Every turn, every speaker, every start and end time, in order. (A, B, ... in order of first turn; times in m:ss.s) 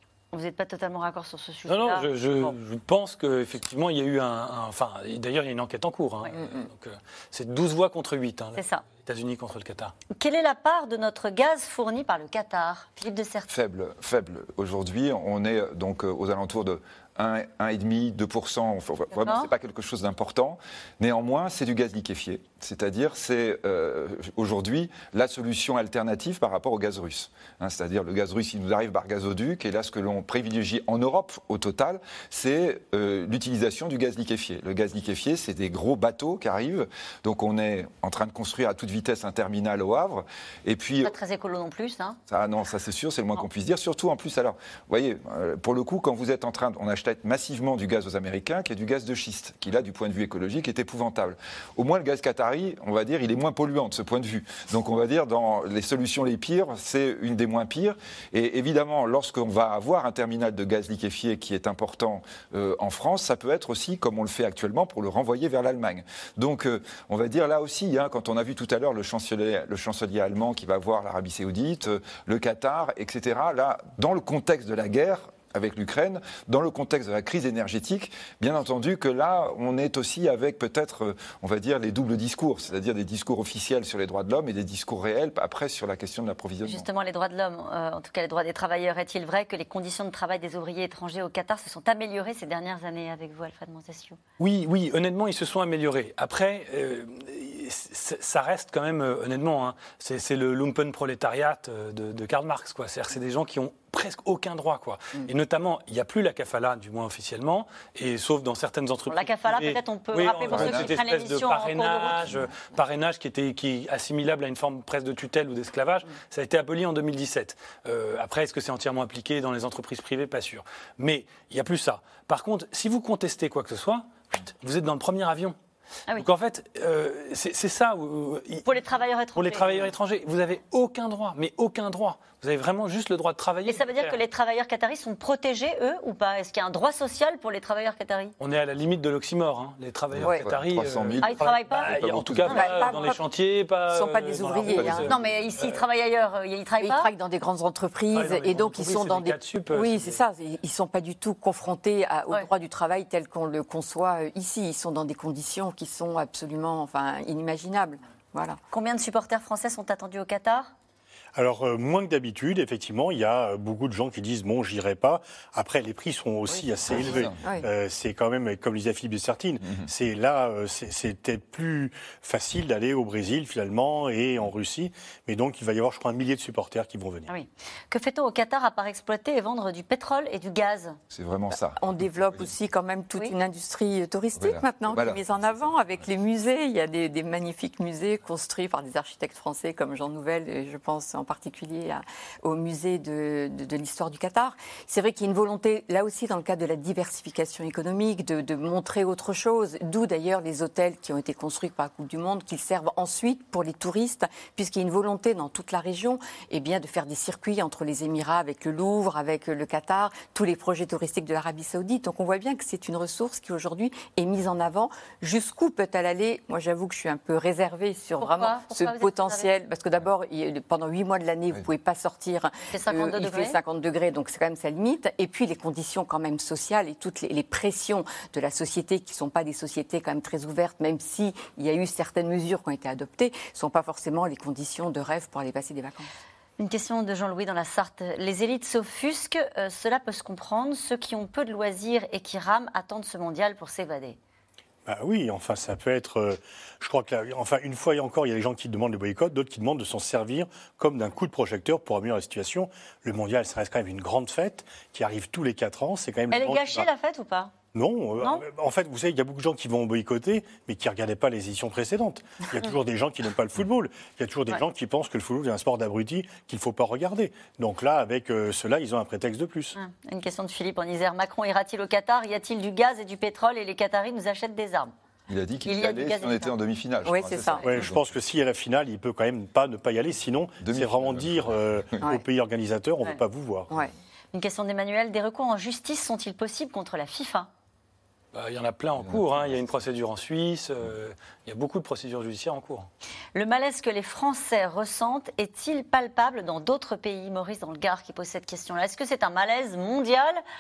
0:00.3-0:02.5 A
0:01.7-0:09.9 B
0:08.6-0:08.8 A
0:10.1-0:13.5 A
0:13.5-0:41.1 C
0:19.2-0:19.5 A
0:41.0-0:42.2 A
0:42.3-1:26.9 C
1:26.6-1:34.2 A
1:34.4-2:05.6 B
1:49.1-1:52.2 A
1:50.2-1:51.0 C
2:06.2-2:08.7 B
2:08.6-2:09.9 A
2:09.4-2:14.2 B
2:13.7-2:18.3 A
2:18.4-2:25.8 B
2:20.2-2:22.9 C
2:21.2-2:22.7 A
2:22.4-2:23.2 D
2:23.9-2:25.1 D
2:24.7-2:25.1 C
2:25.1-2:27.1 A
2:26.8-2:38.6 D
2:28.1-2:30.2 B
2:38.7-2:40.7 A
2:41.4-2:57.3 E
2:46.9-2:47.4 C
2:47.4-2:47.7 D
2:57.3-3:01.0 A
3:01.1-3:02.5 C
3:01.5-3:56.1 D
3:04.4-3:06.1 C
3:38.2-3:39.5 A
3:42.7-3:43.6 A
3:56.6-4:04.2 A
4:04.9-4:16.9 E
4:16.3-4:17.5 A
4:17.7-4:29.8 E
4:29.8-4:34.9 A
4:35.3-4:38.1 C
4:35.6-4:36.5 A
4:37.0-4:37.8 D
4:37.6-4:43.7 E
4:40.6-4:42.1 C
4:44.3-4:47.5 A
4:48.3-4:52.9 B
4:49.0-4:49.6 C
4:53.3-5:00.4 A